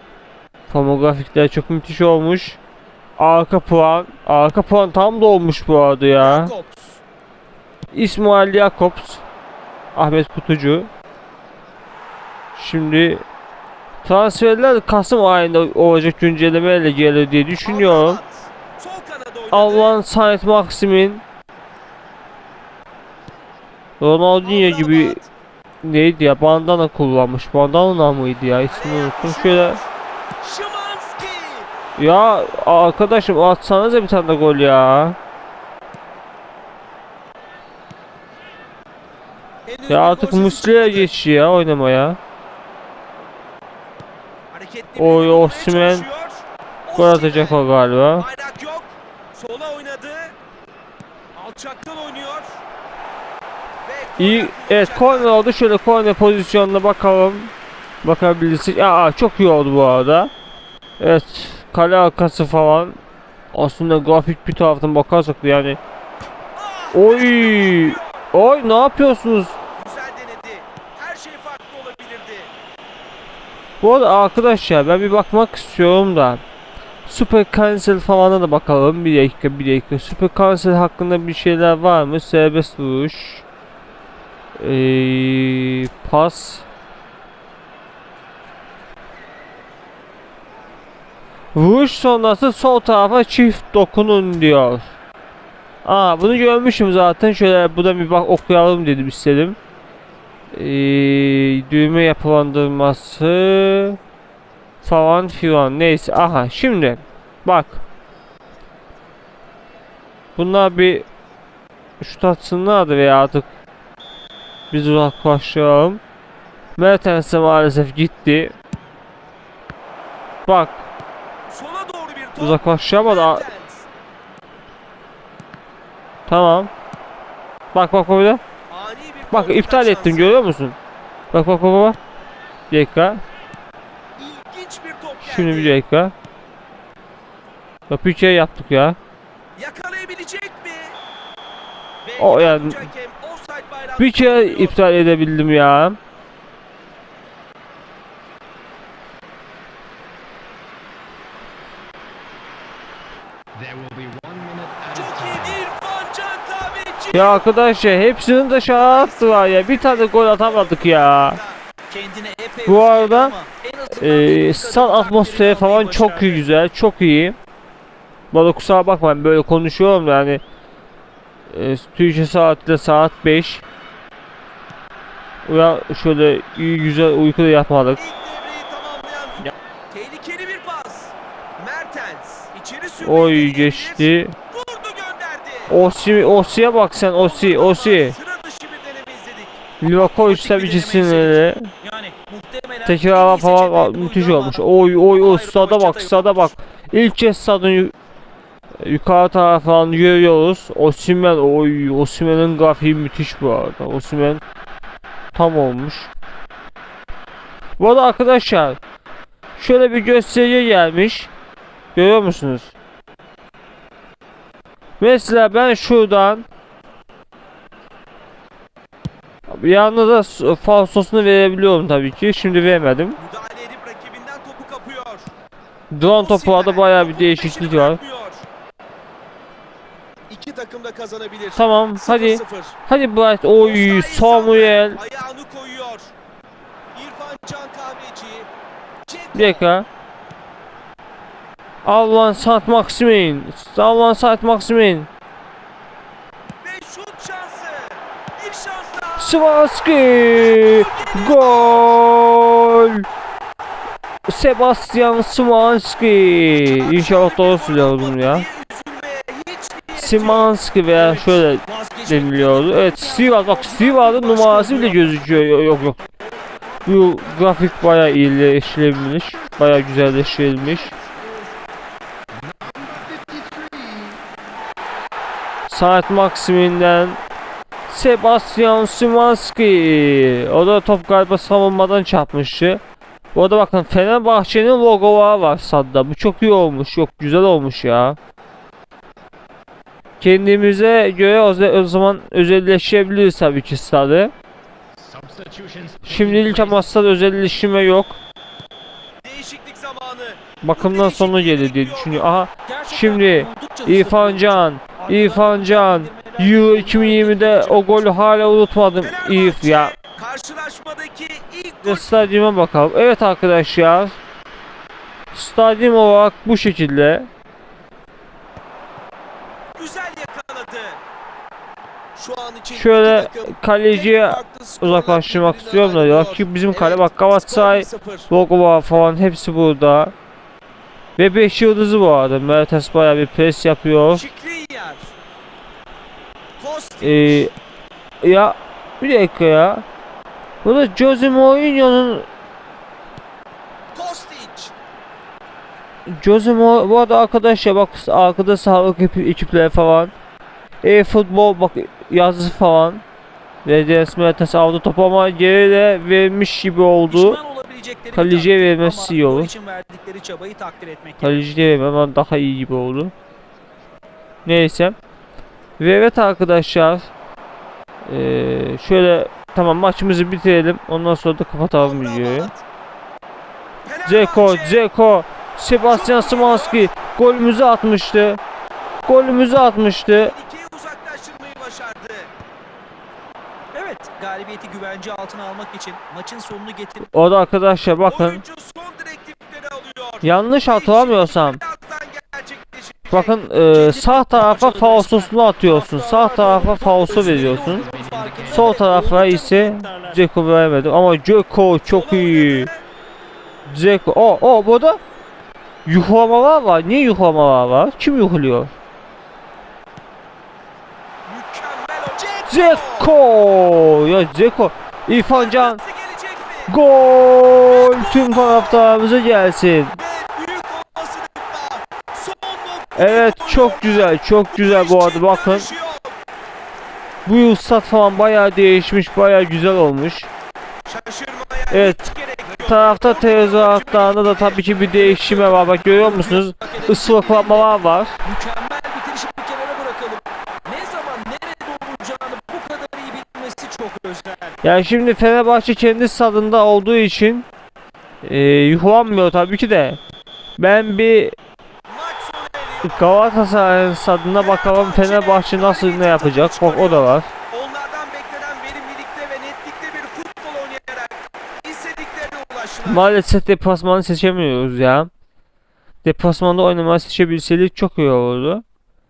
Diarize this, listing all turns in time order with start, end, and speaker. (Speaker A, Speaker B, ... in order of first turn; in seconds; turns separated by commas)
Speaker A: 0.7-2.6, Speaker A: 3.2-6.5, Speaker B: 6.2-7.0, Speaker A: 7.9-9.2, Speaker A: 9.9-10.9, Speaker A: 12.5-13.2, Speaker A: 14.0-18.2, Speaker B: 17.6-20.0, Speaker A: 19.5-21.2, Speaker A: 24.0-25.2, Speaker B: 24.4-25.3, Speaker A: 25.8-29.8, Speaker B: 28.7-29.9, Speaker B: 30.4-31.7, Speaker A: 32.0-35.2, Speaker B: 39.7-41.1, Speaker A: 39.9-42.2, Speaker B: 44.5-47.6, Speaker A: 45.0-46.0, Speaker A: 47.0-48.2, Speaker B: 48.2-50.4, Speaker B: 51.3-52.6, Speaker B: 53.8-55.4, Speaker A: 54.2-57.5, Speaker A: 58.0-60.3, Speaker A: 61.0-63.0, Speaker A: 63.5-65.8, Speaker B: 66.5-68.2, Speaker A: 66.9-69.6, Speaker B: 69.8-72.5, Speaker A: 73.8-76.4, Speaker A: 77.0-83.4, Speaker A: 84.6-86.6, Speaker A: 91.5-94.9, Speaker A: 95.8-99.6, Speaker A: 100.5-104.0, Speaker A: 104.8-107.8, Speaker A: 110.3-111.0, Speaker A: 112.0-113.5, Speaker A: 114.7-116.0, Speaker A: 116.8-118.5, Speaker A: 120.5-120.8, Speaker B: 121.5-123.8, Speaker A: 122.4-123.4, Speaker A: 126.3-126.7, Speaker A: 127.7-128.4, Speaker B: 128.7-130.4, Speaker A: 129.3-130.8, Speaker A: 131.3-132.0, Speaker A: 132.7-133.2, Speaker B: 134.2-135.8, Speaker A: 135.2-136.1, Speaker A: 137.9-139.0, Speaker B: 139.6-141.0, Speaker B: 142.0-144.8, Speaker A: 142.2-142.8, Speaker A: 144.0-146.0, Speaker C: 153.5-155.6, Speaker B: 154.9-157.4, Speaker A: 157.1-161.4, Speaker B: 158.7-166.4, Speaker A: 162.7-163.3, Speaker A: 163.9-167.4, Speaker A: 168.3-170.4, Speaker A: 171.5-173.6, Speaker A: 175.4-178.0, Speaker B: 177.9-185.8, Speaker A: 183.0-184.3, Speaker A: 185.7-188.1, Speaker B: 187.1-196.5, Speaker A: 189.8-191.7, Speaker A: 192.8-197.9, Speaker A: 198.8-204.4, Speaker A: 205.3-206.1, Speaker A: 207.8-208.8, Speaker A: 209.6-211.3, Speaker A: 211.9-212.7, Speaker A: 215.0-216.4, Speaker A: 219.5-223.2, Speaker B: 223.2-225.3, Speaker A: 225.9-228.0, Speaker B: 226.0-228.4, Speaker B: 230.3-232.8, Speaker A: 231.5-235.0, Speaker B: 233.6-236.1, Speaker B: 236.9-238.5, Speaker B: 239.1-239.7, Speaker A: 239.3-239.9, Speaker A: 241.8-245.1, Speaker B: 246.6-249.4, Speaker A: 249.2-253.0, Speaker B: 250.3-252.0, Speaker A: 254.3-258.4, Speaker B: 256.6-265.1, Speaker A: 259.9-266.0, Speaker A: 266.8-270.9, Speaker C: 272.4-274.2, Speaker A: 275.7-277.2, Speaker A: 277.9-282.8, Speaker A: 283.3-288.2, Speaker A: 290.2-294.3, Speaker C: 295.0-296.8, Speaker A: 296.0-298.2, Speaker B: 299.2-304.5, Speaker A: 300.6-309.9, Speaker D: 303.5-308.0, Speaker B: 305.1-307.9, Speaker B: 309.0-312.1, Speaker A: 311.8-314.2, Speaker A: 315.3-317.3, Speaker B: 319.8-321.0, Speaker B: 322.1-328.3, Speaker A: 322.7-330.1, Speaker A: 331.2-334.2, Speaker B: 334.1-335.1, Speaker B: 336.6-337.5, Speaker A: 337.0-337.5, Speaker A: 338.2-339.8, Speaker A: 340.6-342.3, Speaker B: 343.9-344.7, Speaker A: 346.1-350.1, Speaker A: 350.8-353.0, Speaker A: 353.6-357.4, Speaker B: 357.1-361.4, Speaker D: 357.4-358.5, Speaker A: 358.1-359.5, Speaker D: 359.6-361.2, Speaker A: 361.2-363.1, Speaker A: 364.4-365.0, Speaker A: 365.8-367.1, Speaker A: 368.0-372.5, Speaker B: 371.8-372.6, Speaker B: 373.8-374.8, Speaker A: 374.0-378.4, Speaker B: 375.8-376.9, Speaker A: 379.0-380.3, Speaker B: 380.1-382.3, Speaker B: 383.7-386.3, Speaker D: 384.3-387.0, Speaker A: 387.1-388.4, Speaker B: 388.0-399.7, Speaker A: 390.2-391.6, Speaker A: 393.1-397.8, Speaker C: 397.1-399.2, Speaker A: 398.4-402.7, Speaker D: 398.7-400.1, Speaker B: 401.9-402.8, Speaker A: 403.6-405.0, Speaker A: 405.9-408.7, Speaker B: 411.2-413.1, Speaker A: 412.5-415.8, Speaker B: 415.3-416.7, Speaker A: 416.7-419.9, Speaker B: 417.6-418.9, Speaker B: 419.9-426.2, Speaker A: 422.9-425.7, Speaker A: 427.2-430.3, Speaker B: 430.9-437.7, Speaker A: 431.7-432.0, Speaker A: 432.6-438.1, Speaker B: 438.2-444.6, Speaker A: 444.6-447.5, Speaker A: 448.2-450.0, Speaker A: 450.6-451.3, Speaker B: 451.9-453.1, Speaker A: 452.8-457.3, Speaker B: 454.3-463.1, Speaker A: 462.8-465.1, Speaker A: 466.0-468.6